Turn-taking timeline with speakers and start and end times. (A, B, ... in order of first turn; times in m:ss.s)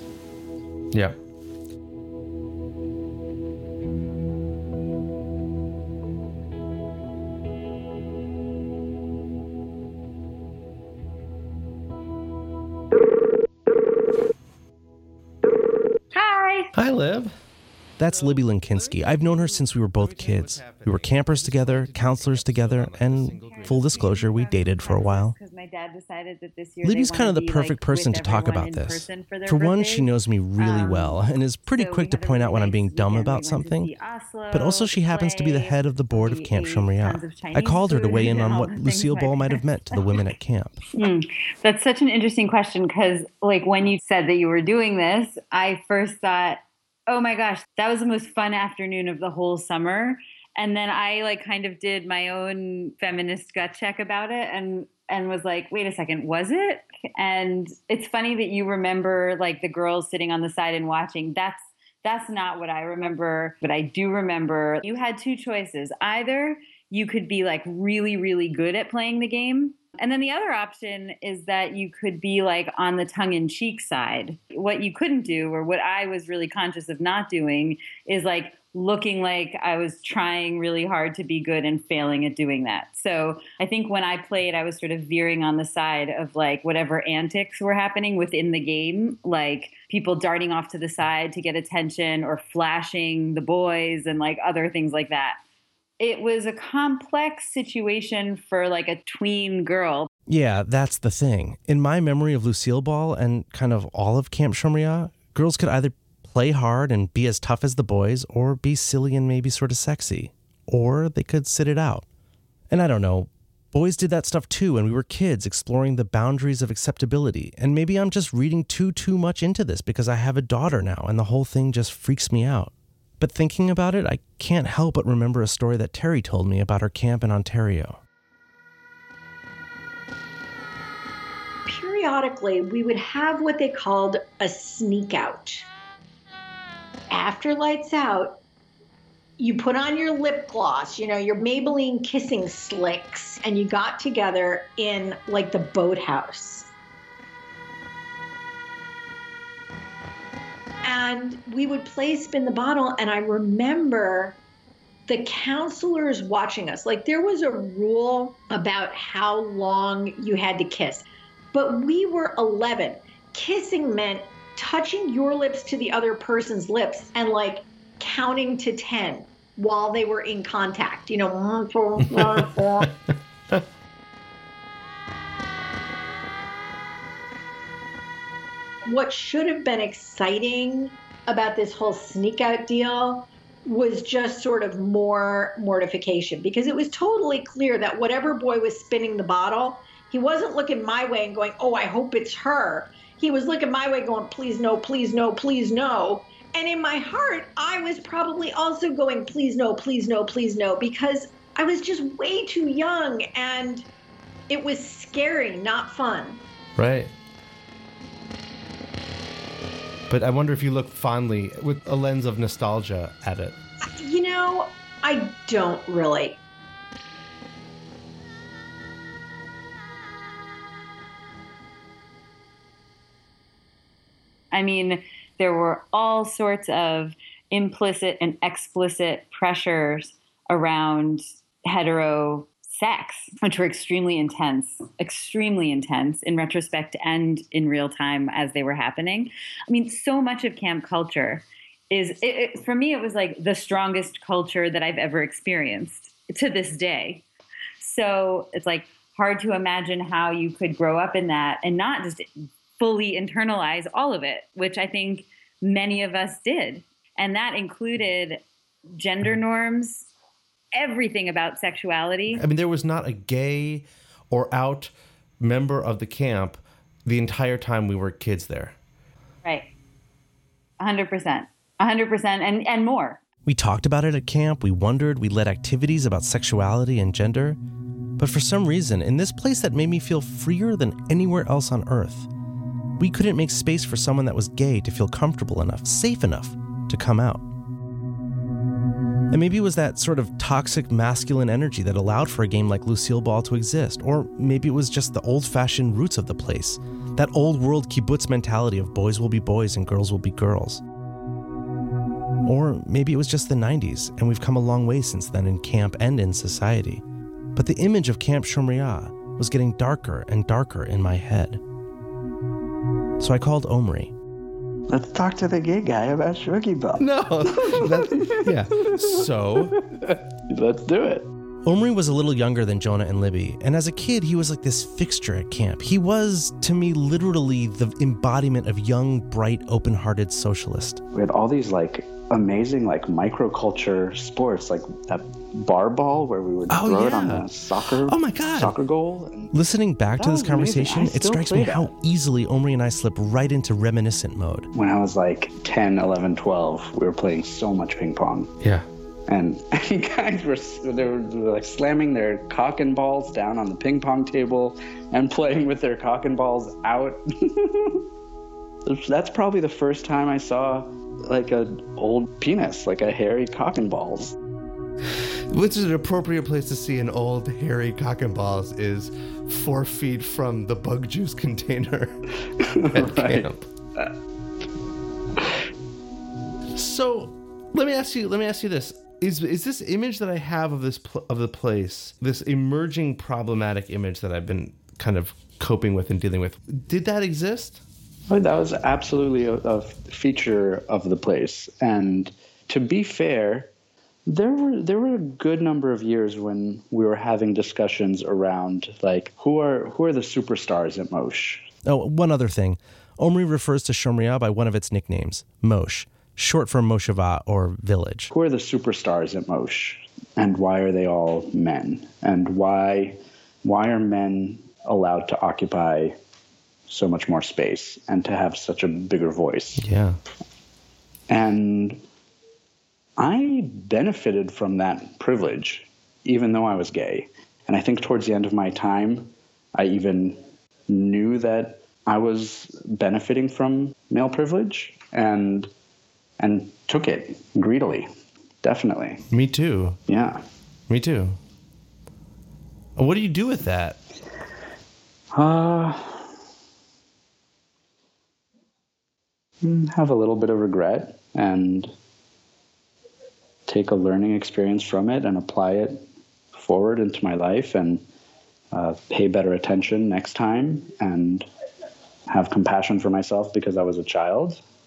0:16.1-0:16.5 A
0:16.3-0:16.7 B
0:16.7-0:17.3 C
0:18.0-0:25.3 D
0:18.1-0:24.1 C
0:23.4-0:40.0 A
0:26.8-0:33.9 D
0:34.5-0:40.8 D
0:41.0-1:35.4 A
1:36.0-1:40.1 A
1:40.3-1:52.0 D
1:52.7-2:08.0 D
2:11.7-2:15.7 B
2:17.1-2:18.4 B
2:19.4-2:26.7 B
2:30.8-2:34.4 B
2:35.1-2:52.9 B
2:58.8-3:23.8 B
3:24.5-3:26.4 B
3:26.8-3:27.1 C
3:30.1-3:33.6 C
3:34.0-3:36.4 B
3:44.5-4:07.2 A
4:07.8-4:18.4 A
4:18.9-4:20.1 A
4:20.7-4:22.4 A
4:22.3-4:28.8 C
4:30.8-4:33.2 A
4:33.4-4:37.6 D
4:38.2-4:42.3 D
4:43.0-4:47.4 D
4:49.3-5:00.8 D
5:02.4-5:07.0 D
5:07.5-5:11.6 D
5:13.2-5:14.1 D
5:14.9-5:19.2 E
5:17.0-5:18.6 C
5:18.9-5:19.7 D
5:20.0-5:21.3 E
5:21.6-5:31.0 D
5:31.1-5:39.5 E
5:36.7-5:37.5 D
5:38.0-5:38.7 D
5:39.5-5:44.7 D
5:40.2-5:41.9 E
5:44.7-5:48.5 E
5:49.3-5:58.0 E
5:58.8-6:04.4 E
6:05.5-6:12.2 C
6:12.6-6:14.1 E
6:12.9-6:13.6 C
6:16.8-6:27.8 C
6:28.3-6:33.7 E
6:34.3-6:41.7 E
6:41.8-6:48.3 D
6:48.3-6:56.1 E
6:56.9-6:59.8 E
6:59.8-7:00.2 C
7:01.3-7:02.0 E
7:03.2-7:15.7 E
7:16.4-7:18.1 E
7:18.6-7:19.2 E
7:19.3-7:20.0 C
7:20.1-7:20.4 E
7:20.9-7:21.4 C
7:23.0-7:24.0 C
7:25.3-7:26.3 E
7:29.6-7:31.9 E
7:33.7-7:38.0 E
7:38.7-7:41.4 E
7:42.3-7:44.6 E